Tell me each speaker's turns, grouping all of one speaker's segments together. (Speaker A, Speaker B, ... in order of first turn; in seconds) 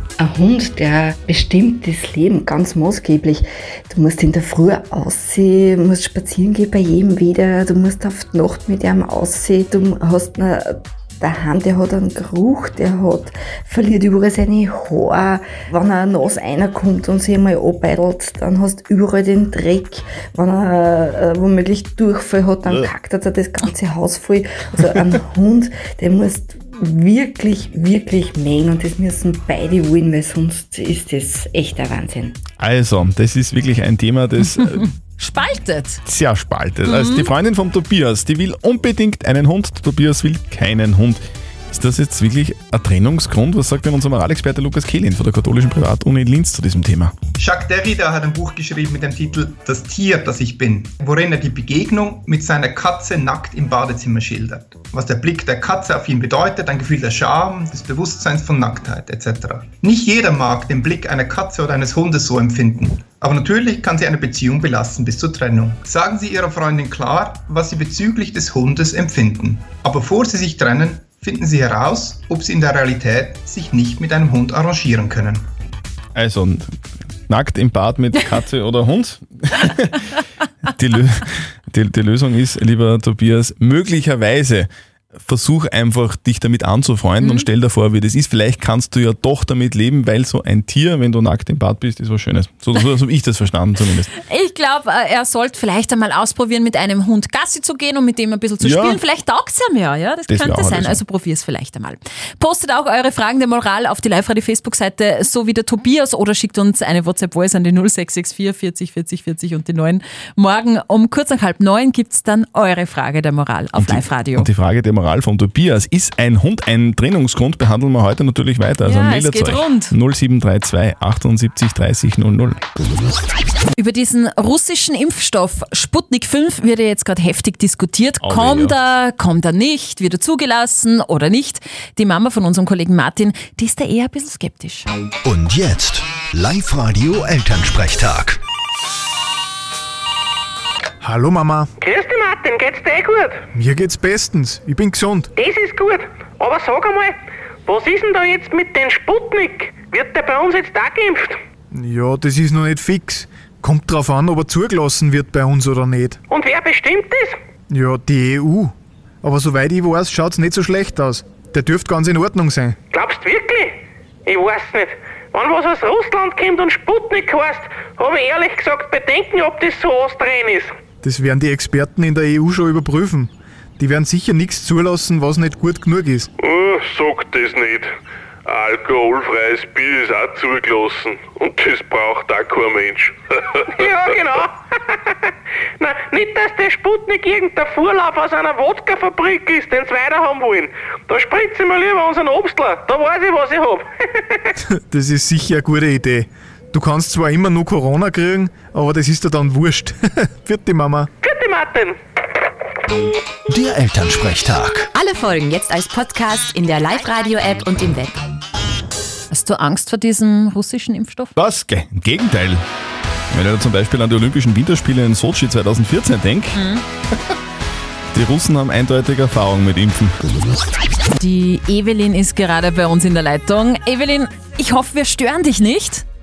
Speaker A: 0.2-32.4
Speaker B: 32.6-34.9, 36.0-47.1, 76.1-76.7, 77.3-80.0, 80.7-94.1, 98.6-99.0, 100.3-101.0, 113.8-122.6, 128.2-128.8, 211.3-212.6, 213.3-216.6, 218.1-220.2
Speaker C: 35.2-36.0, 36.8-37.3, 87.2-87.5, 94.3-114.5, 118.8-119.9, 123.7-134.9, 209.3-211.3, 216.5-216.8, 221.1-226.0
Speaker D: 47.4-75.5
Speaker E: 135.2-138.4, 203.5-204.9
Speaker F: 141.0-141.7, 143.5-145.3, 151.7-156.2, 157.7-158.7, 159.2-162.7, 171.0-176.3, 194.9-201.1
Speaker G: 141.8-143.4, 145.3-147.1, 147.7-151.4, 156.3-157.3, 162.9-170.7, 176.4-177.9, 178.5-183.1, 183.7-184.6, 185.8-193.9, 201.2-201.9
Speaker H: 205.0-208.1